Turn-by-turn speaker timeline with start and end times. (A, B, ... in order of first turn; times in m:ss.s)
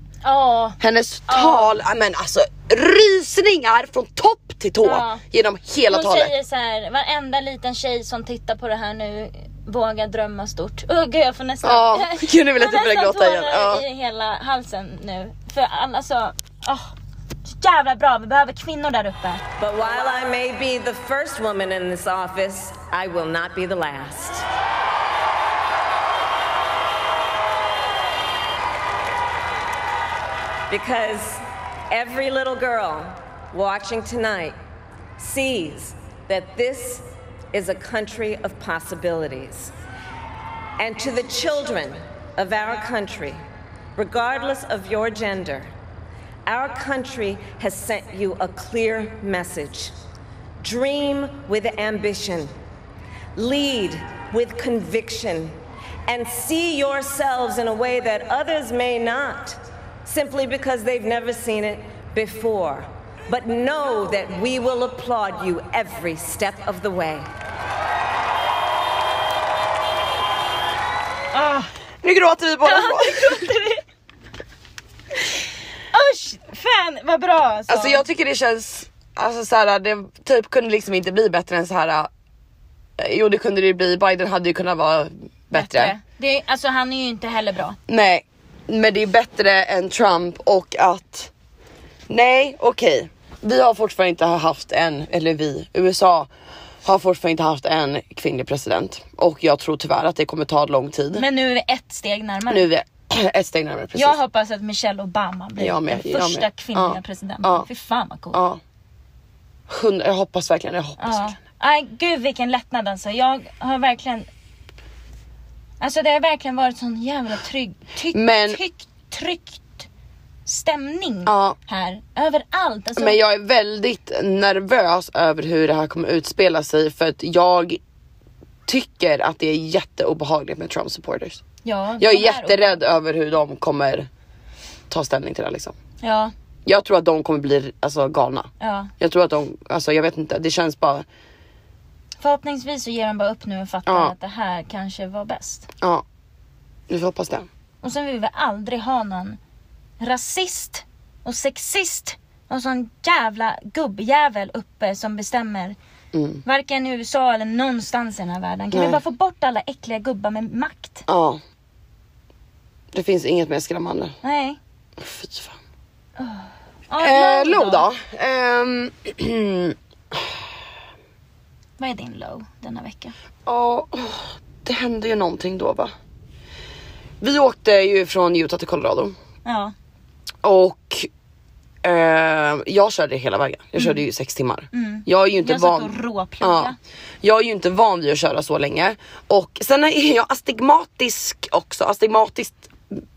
0:00.2-0:01.7 A
0:00.8-0:06.3 B
0:04.8-0:05.2 A
0:05.9-0:16.9 A
0:11.6-0:13.8 B
0:17.4-0:19.4 A
0:19.6-0:24.5 C
0:30.7-0:34.6 C
0:35.2-0:39.7 C
0:40.8-0:43.4 C
0:44.0-0:45.7 C
0:46.5-0:49.9 C
0:50.6-0:52.6 C
0:53.4-1:07.3 C
1:11.3-1:11.7 A
1:12.0-1:13.5 B
1:12.6-1:13.8 A
1:15.9-1:18.0 A
1:17.7-1:22.1 B
1:23.0-1:26.0 B
1:25.5-1:27.8 A
1:27.9-1:31.3 B
1:32.1-1:36.3 B
1:36.8-1:41.2 B
1:41.1-1:42.7 A
1:42.5-1:44.2 B
1:44.0-1:48.4 A
1:45.6-1:47.7 B
1:48.3-1:48.6 B
1:49.7-1:51.3 B
1:51.0-1:54.3 A
1:55.8-1:59.9 A
1:58.1-1:58.6 B
2:00.5-2:03.2 A
2:01.3-2:01.6 B
2:03.0-2:07.8 B
2:08.7-2:11.4 B
2:11.6-2:12.8 A
2:12.0-2:14.1 B
2:14.9-2:15.8 B
2:16.0-2:16.3 A
2:16.7-2:21.0 B
2:18.6-2:18.9 A
2:22.2-2:25.7 A
2:23.9-2:24.1 B
2:26.9-2:27.5 B
2:27.8-2:29.4 A
2:30.0-2:35.8 A
2:36.1-2:36.4 B
2:36.4-2:41.1 A
2:38.7-2:39.0 B
2:41.1-2:41.4 B
2:42.9-2:44.2 B
2:44.2-2:44.6 A
2:45.0-2:45.6 B
2:46.2-2:47.9 A
2:47.0-2:50.3 B
2:51.8-2:53.2 A
2:53.5-2:55.9 B
2:57.2-2:59.2 B
2:59.4-2:59.7 A
3:00.4-3:01.1 B
3:01.8-3:13.0 B
3:04.7-3:06.8 A